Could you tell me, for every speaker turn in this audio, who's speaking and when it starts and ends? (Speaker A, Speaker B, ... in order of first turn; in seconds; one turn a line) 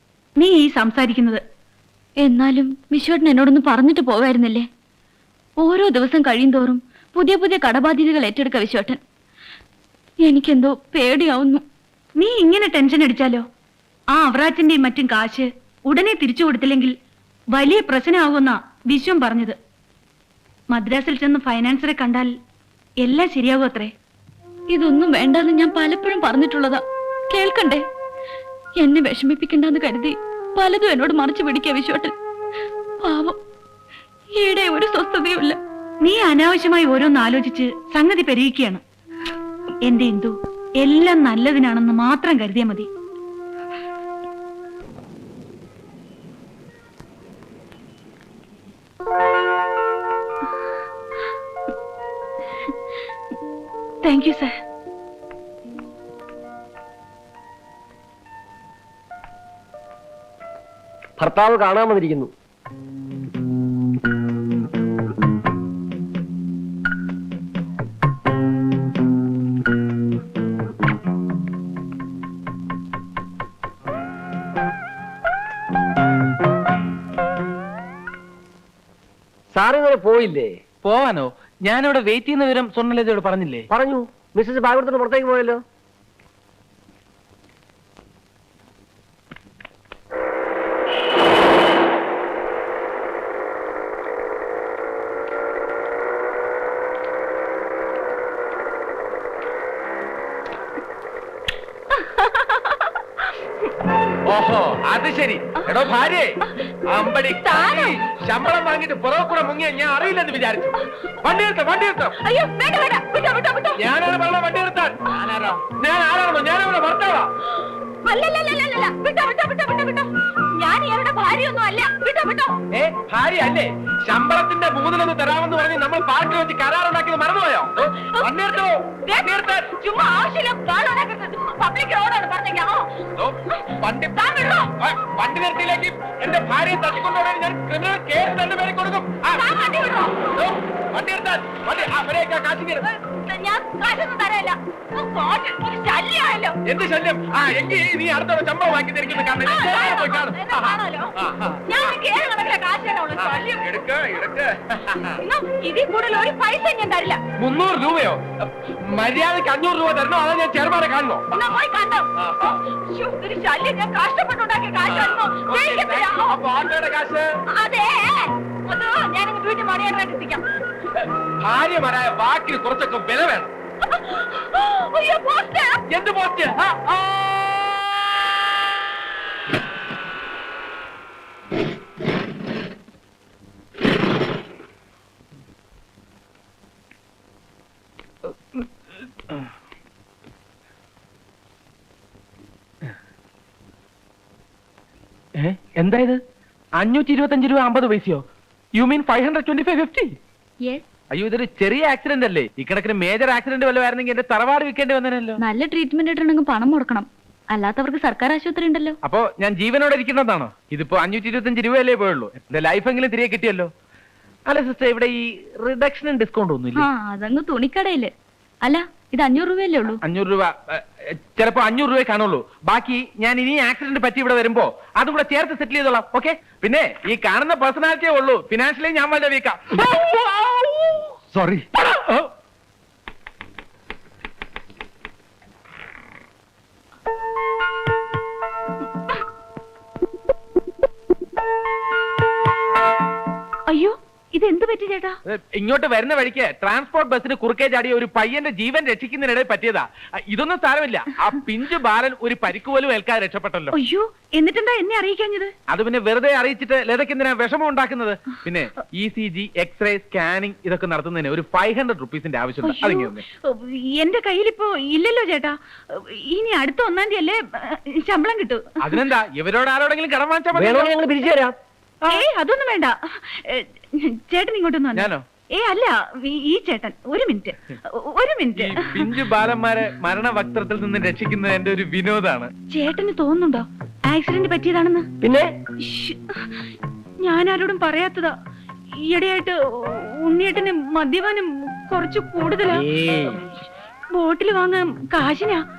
Speaker A: 0.4-1.4
Speaker B: 2.2-4.7
Speaker B: 5.6-9.0
Speaker B: 10.2-11.6
Speaker A: 12.2-13.4
Speaker A: 14.1-16.9
Speaker A: 17.5-19.6
Speaker A: 20.7-22.3
Speaker A: 23.0-23.9
Speaker B: 24.7-27.9
Speaker B: 28.8-32.1
Speaker B: 33.0-33.4
Speaker B: 34.4-35.6
Speaker A: 36.0-38.8
Speaker A: 39.9-42.9
Speaker A: 54.0-54.5
Speaker C: 61.2-62.3
Speaker C: 79.5-80.5
Speaker D: 80.8-83.7
Speaker C: 83.7-85.6
Speaker A: 102.1-102.7
Speaker D: 104.3-106.3
Speaker D: 106.9-112.2
Speaker A: 107.4-108.0
Speaker A: 112.2-113.8
Speaker D: 113.8-117.3
Speaker A: 118.0-122.6
Speaker D: 122.7-129.7
Speaker A: 128.0-128.4
Speaker A: 129.0-132.9
Speaker D: 133.2-142.8
Speaker A: 134.1-134.7
Speaker A: 139.3-140.4
Speaker A: 143.1-146.6
Speaker D: 146.6-151.6
Speaker A: 149.4-151.1
Speaker A: 151.7-153.8
Speaker D: 153.2-155.1
Speaker A: 155.1-157.2
Speaker D: 157.4-161.3
Speaker A: 161.3-162.1
Speaker D: 162.2-162.5
Speaker A: 162.7-166.3
Speaker D: 164.9-167.2
Speaker A: 167.5-170.4
Speaker D: 171.4-173.5
Speaker A: 174.0-175.8
Speaker D: 175.9-177.3
Speaker D: 195.4-196.2
Speaker D: 196.8-198.2
Speaker D: 198.8-200.1
Speaker D: 201.1-205.4
Speaker B: 205.4-209.0
Speaker D: 209.0-213.7
Speaker D: 214.5-216.9
Speaker B: 216.8-220.0
Speaker D: 220.0-230.5
Speaker D: 231.7-232.3
Speaker A: 243.7-245.2
Speaker D: 245.2-253.7
Speaker A: 253.7-255.5
Speaker D: 255.7-263.2
Speaker A: 262.6-269.0
Speaker D: 268.8-271.0
Speaker C: 270.5-271.5
Speaker A: 272.1-279.1
Speaker D: 274.9-275.2
Speaker D: 278.6-282.5
Speaker A: 282.7-285.1
Speaker C: 285.2-285.5
Speaker A: 285.8-286.2
Speaker A: 287.2-288.3
Speaker A: 289.0-292.8
Speaker C: 292.7-293.4
Speaker A: 294.1-295.6